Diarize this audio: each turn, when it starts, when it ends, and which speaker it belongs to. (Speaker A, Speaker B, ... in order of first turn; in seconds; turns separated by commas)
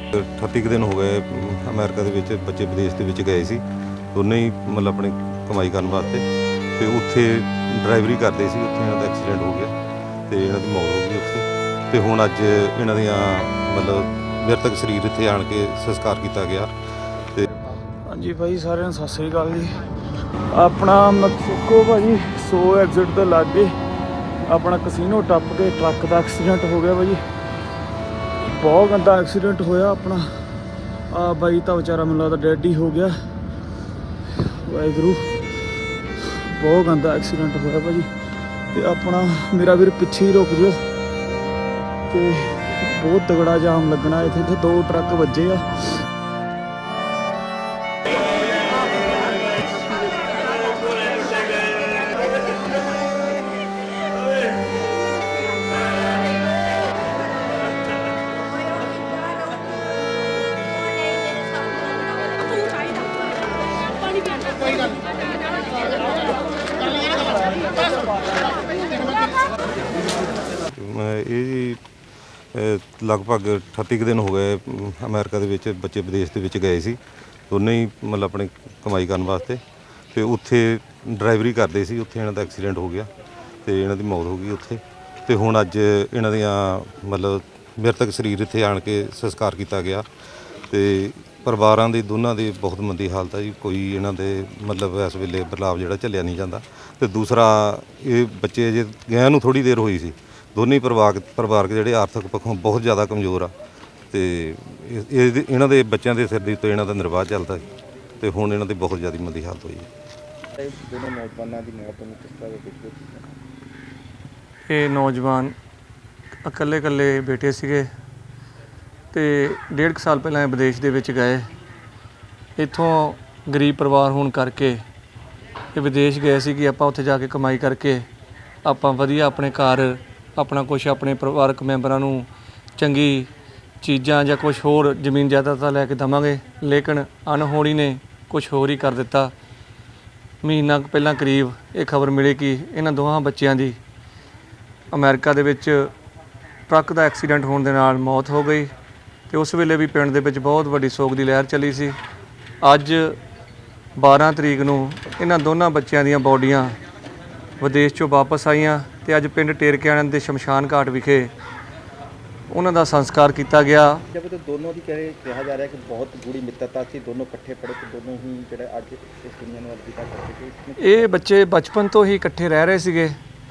Speaker A: 0.1-3.6, Speaker A: 4.1-9.7, Speaker A: 10.3-16.7, Speaker B: 18.1-19.8, Speaker B: 20.5-23.7, Speaker B: 24.5-27.2, Speaker B: 28.5-30.2, Speaker B: 31.1-33.1, Speaker B: 34.5-35.3, Speaker B: 36.2-38.1, Speaker B: 38.7-40.8, Speaker B: 42.1-45.9, Speaker A: 70.7-71.8, Speaker A: 72.5-77.0, Speaker A: 77.5-79.6, Speaker A: 80.1-83.1, Speaker A: 83.6-90.0, Speaker A: 90.7-103.5, Speaker A: 104.1-107.6, Speaker A: 108.2-109.9, Speaker C: 110.6-113.3, Speaker D: 114.7-115.5, Speaker D: 116.4-117.9, Speaker D: 119.1-121.5, Speaker D: 122.6-124.8, Speaker D: 125.7-128.1, Speaker D: 128.6-133.3, Speaker D: 133.8-139.3, Speaker D: 140.4-143.8, Speaker D: 144.9-145.9, Speaker D: 146.7-148.7, Speaker D: 149.3-151.9, Speaker D: 152.6-153.2, Speaker D: 154.0-156.7, Speaker D: 157.6-161.3, Speaker D: 162.5-164.0, Speaker C: 164.1-171.1, Speaker D: 170.8-173.2